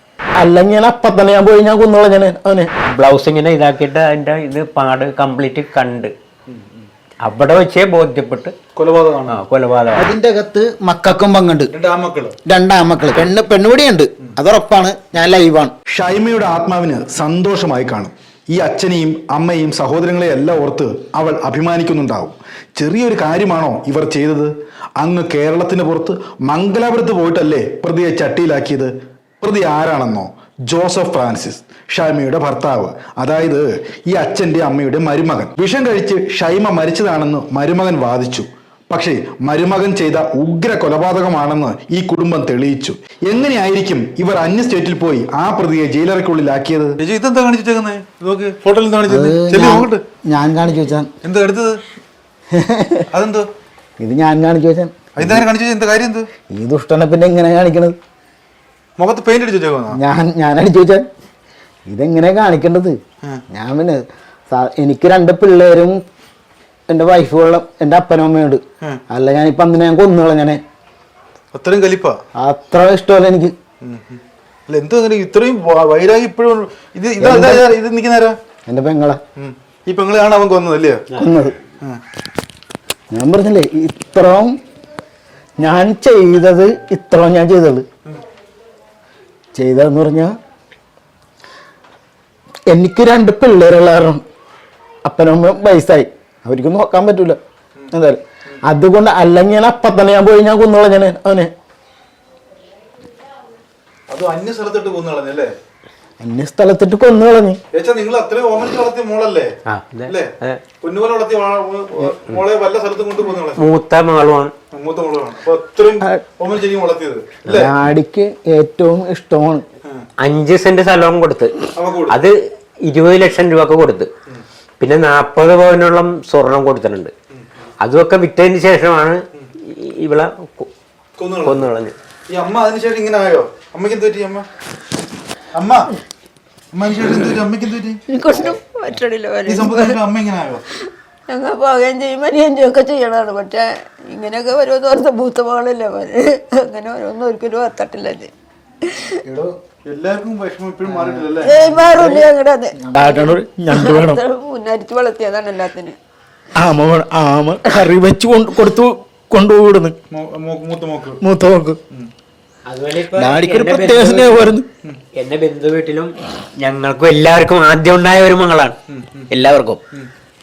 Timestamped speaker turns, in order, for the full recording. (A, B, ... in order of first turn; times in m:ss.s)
0:00.4-0:02.7 A
0:03.0-0:06.1 B
0:07.2-0:08.5 B
0:08.8-0:09.4 C
0:09.3-0:10.1 B
0:10.0-0:11.7 A
0:11.7-0:12.4 C
0:12.5-0:15.7 A
0:15.9-0:28.9 D
0:29.4-0:47.1 D
0:47.1-0:50.0 C
0:49.1-0:51.1 A
0:49.3-0:49.7 D
0:51.3-0:51.8 C
0:52.5-0:53.1 A
0:54.0-0:55.4 A
0:55.3-0:56.3 C
0:56.5-0:58.0 A
0:59.0-1:00.0 C
0:59.9-1:01.0 A
1:01.9-1:03.0 A
1:03.5-1:06.0 A
1:06.9-1:10.6 A
1:11.5-1:12.2 C
1:12.4-1:13.5 A
1:13.9-1:14.2 C
1:15.0-1:18.3 C
1:15.7-1:16.0 D
1:17.2-1:17.7 A
1:17.5-1:18.3 D
1:18.7-1:19.2 A
1:19.9-1:21.0 C
1:21.1-1:21.6 A
1:23.1-1:24.6 A
1:25.6-1:27.8 A
1:29.5-1:30.3 A
1:32.7-1:34.2 A
1:35.0-1:37.4 A
1:37.9-1:41.5 A
1:44.1-1:45.5 C
1:46.2-1:47.6 A
1:47.7-1:49.5 C
1:49.7-1:50.6 B
1:50.1-1:53.6 C
1:53.6-1:54.5 B
1:54.7-1:57.7 C
1:57.4-1:59.7 A
2:00.2-2:01.5 B
2:01.8-2:02.2 C
2:02.1-2:02.3 B
2:02.8-2:04.1 B
2:04.8-2:07.1 B
2:07.8-2:10.7 B
2:11.2-2:11.6 C
2:11.4-2:12.0 B
2:12.3-2:14.5 C
2:15.6-2:15.9 C
2:16.8-2:18.0 C
2:18.1-2:20.0 E
2:19.5-2:20.6 C
2:20.8-2:28.3 E
2:28.8-2:29.2 E
2:29.2-2:29.6 A
2:29.9-2:31.5 C
2:30.9-2:31.2 A
2:31.4-2:36.0 E
2:31.8-2:32.2 A
2:32.8-2:34.2 A
2:36.6-2:40.0 A
2:40.1-2:41.2 C
2:41.2-2:41.8 A
2:42.7-2:44.6 B
2:43.1-2:44.7 A
2:45.2-2:48.8 B
2:48.9-2:49.3 C
2:49.3-2:49.8 B